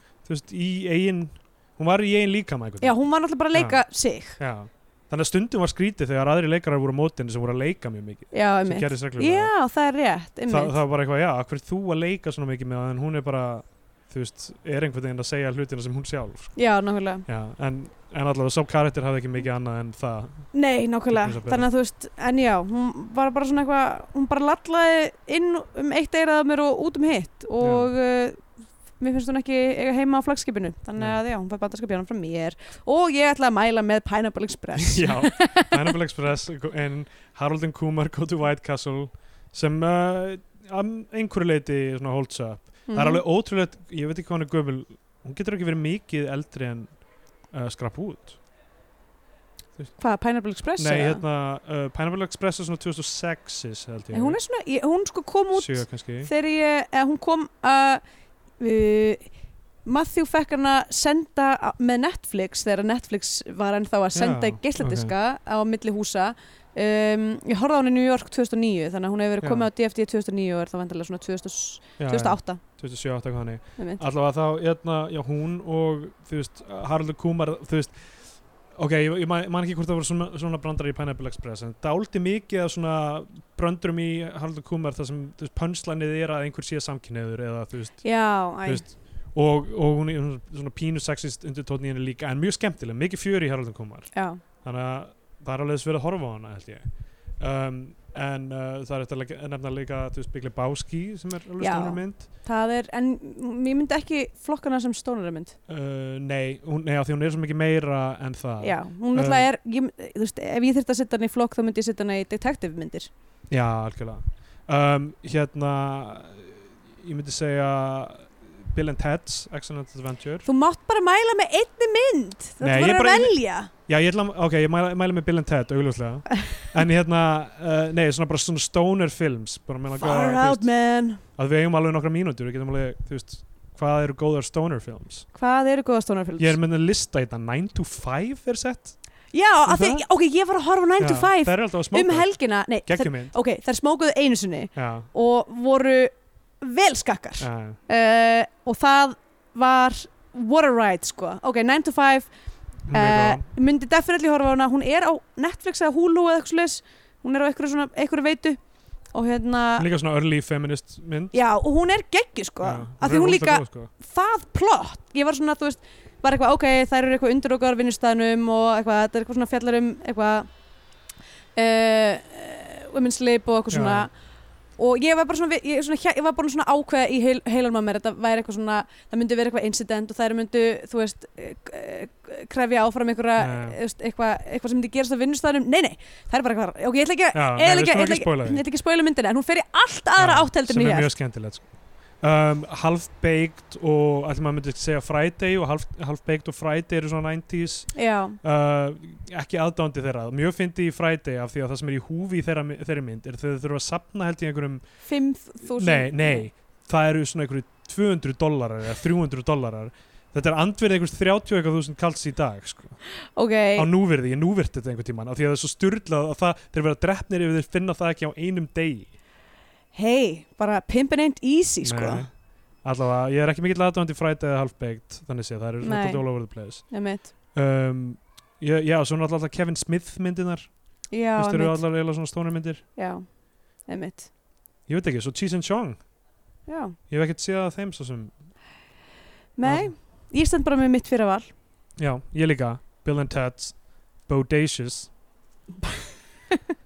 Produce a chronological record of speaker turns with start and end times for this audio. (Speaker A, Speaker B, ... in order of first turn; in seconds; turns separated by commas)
Speaker A: 0.2-2.9, Speaker B: 2.8-4.4, Speaker A: 3.5-3.8, Speaker A: 4.4-9.5, Speaker B: 8.3-10.8, Speaker A: 10.5-16.5, Speaker B: 16.5-17.2, Speaker A: 17.2-20.5, Speaker B: 20.5-35.9, Speaker A: 21.1-21.7, Speaker A: 27.6-27.9, Speaker A: 34.7-47.0, Speaker B: 42.9-43.2, Speaker A: 47.5-48.4, Speaker B: 50.0-51.2, Speaker A: 50.8-54.4, Speaker B: 54.1-58.0, Speaker A: 55.5-56.3, Speaker B: 58.6-59.3, Speaker B: 59.8-72.6, Speaker A: 64.1-65.1, Speaker A: 69.4-69.7, Speaker A: 72.0-77.9, Speaker B: 73.8-74.0, Speaker A: 78.8-96.8, Speaker B: 88.0-88.8, Speaker B: 94.1-94.4, Speaker A: 97.4-102.3, Speaker B: 101.6-105.5, Speaker A: 105.7-109.5, Speaker B: 108.6-113.1, Speaker A: 113.5-120.5, Speaker B: 120.4-123.7, Speaker A: 122.6-130.7, Speaker B: 130.0-131.2, Speaker A: 131.4-135.2, Speaker B: 135.3-136.6, Speaker A: 136.4-138.9, Speaker B: 139.3-152.3, Speaker A: 139.7-140.0, Speaker A: 141.0-142.3, Speaker A: 142.8-143.3, Speaker A: 144.7-145.1, Speaker A: 147.4-147.8, Speaker A: 152.9-153.4, Speaker B: 152.9-158.6, Speaker B: 159.1-159.9, Speaker A: 159.8-161.3, Speaker B: 161.3-170.5, Speaker A: 162.6-163.9, Speaker B: 171.6-174.1, Speaker A: 173.7-174.1, Speaker B: 174.8-191.1, Speaker A: 183.4-183.8, Speaker A: 187.3-188.6, Speaker A: 190.2-191.7, Speaker A: 192.2-197.9, Speaker B: 197.9-198.4, Speaker A: 198.4-204.8, Speaker B: 205.1-206.4, Speaker A: 205.7-213.0, Speaker B: 213.3-213.9, Speaker A: 213.8-219.1, Speaker B: 219.9-222.2, Speaker A: 221.8-222.3, Speaker A: 222.8-226.8, Speaker B: 225.8-226.2, Speaker B: 226.9-227.3, Speaker A: 227.5-230.7, Speaker B: 231.1-231.8, Speaker A: 231.3-232.8, Speaker B: 232.9-233.2, Speaker B: 233.9-234.3, Speaker A: 234.9-236.0, Speaker B: 236.7-236.9, Speaker A: 237.1-238.3, Speaker B: 239.6-241.5, Speaker A: 239.6-239.9, Speaker A: 242.0-243.8, Speaker A: 244.3-245.1